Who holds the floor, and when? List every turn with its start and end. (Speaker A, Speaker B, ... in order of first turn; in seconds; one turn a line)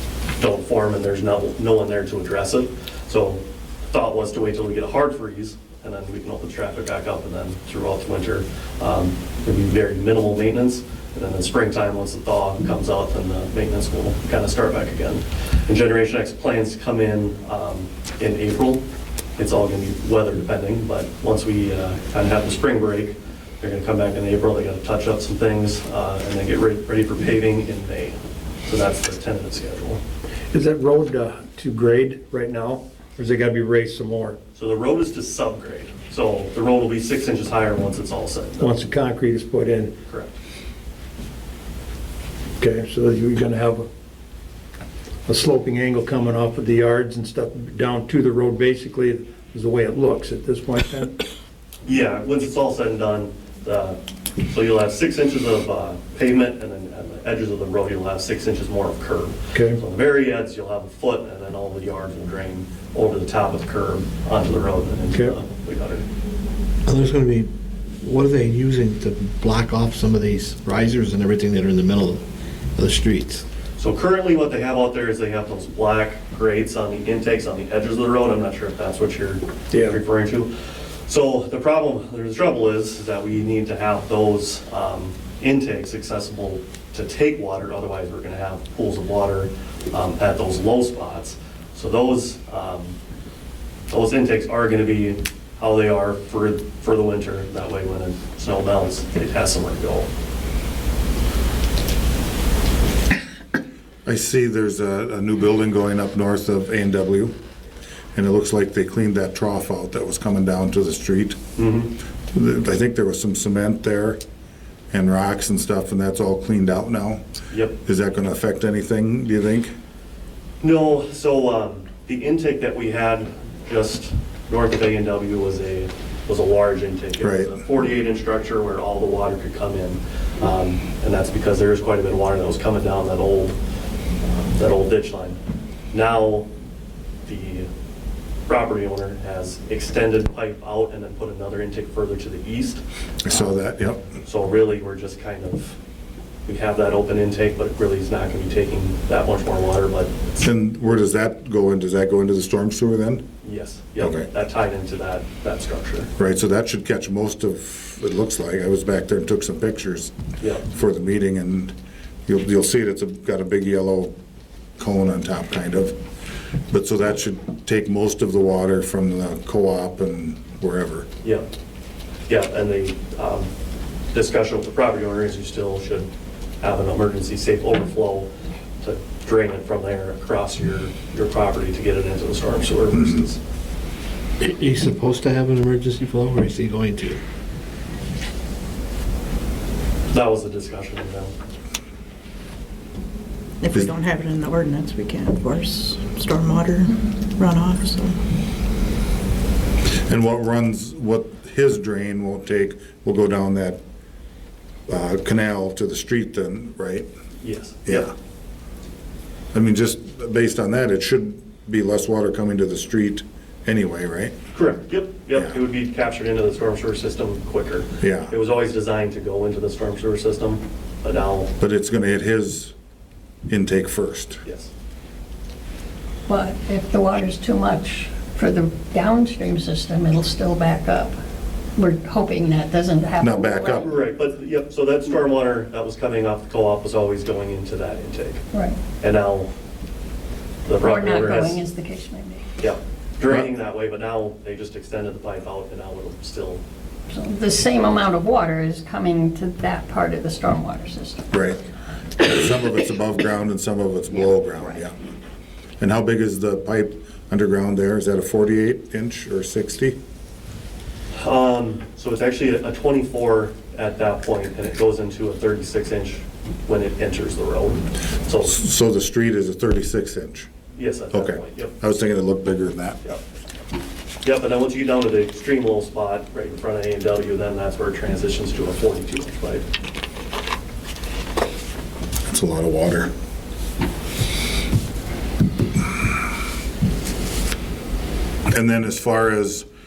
Speaker A: 0.4-18.8
Speaker A: 19.4-30.0
Speaker B: 30.5-34.4
Speaker A: 34.5-38.8
Speaker B: 38.6-39.9
Speaker A: 40.1-40.4
Speaker B: 42.6-43.8
Speaker B: 45.3-51.1
Speaker A: 51.9-66.0
Speaker B: 59.5-59.8
Speaker C: 66.8-72.2
Speaker C: 72.8-73.4
Speaker A: 73.8-80.5
Speaker A: 81.1-93.0
Speaker A: 93.9-100.1
Speaker D: 104.0-107.3
Speaker D: 108.1-111.4
Speaker A: 111.6-111.9
Speaker D: 112.3-114.2
Speaker D: 114.9-117.2
Speaker A: 117.5-117.8
Speaker D: 117.8-119.7
Speaker A: 120.6-133.6
Speaker D: 127.2-127.5
Speaker A: 134.2-135.4
Speaker A: 135.9-136.5
Speaker A: 137.2-137.7
Speaker A: 138.5-143.5
Speaker D: 143.2-144.0
Speaker A: 144.2-145.8
Speaker A: 146.4-150.4
Speaker D: 150.4-153.2
Speaker A: 153.4-156.1
Speaker D: 154.0-154.3
Speaker D: 156.2-160.1
Speaker D: 160.6-161.7
Speaker D: 162.3-164.1
Speaker D: 164.8-165.9
Speaker D: 166.7-171.1
Speaker A: 172.3-173.5
Speaker A: 174.1-176.1
Speaker A: 176.6-178.3
Speaker A: 178.8-183.4
Speaker C: 184.4-187.2
Speaker A: 190.1-191.3
Speaker E: 193.6-198.2
Speaker D: 200.1-203.8
Speaker D: 204.9-207.1
Speaker A: 207.4-208.1
Speaker D: 207.8-208.1
Speaker D: 209.5-214.3
Speaker A: 214.5-221.5
Speaker D: 218.0-218.3
Speaker D: 221.6-222.7
Speaker D: 223.5-224.4
Speaker A: 224.4-224.7
Speaker F: 226.3-231.2
Speaker F: 231.8-233.8
Speaker D: 233.2-233.9
Speaker A: 233.7-238.4
Speaker A: 239.0-239.5
Speaker A: 240.7-241.6
Speaker F: 240.8-242.4
Speaker A: 242.6-246.6
Speaker F: 247.1-251.3
Speaker D: 251.3-251.6
Speaker D: 252.2-254.9
Speaker D: 255.8-260.0
Speaker A: 261.2-268.5
Speaker D: 268.4-270.5
Speaker A: 270.7-271.7
Speaker D: 271.1-273.0
Speaker A: 274.2-279.7
Speaker D: 282.3-283.1
Speaker D: 288.5-289.6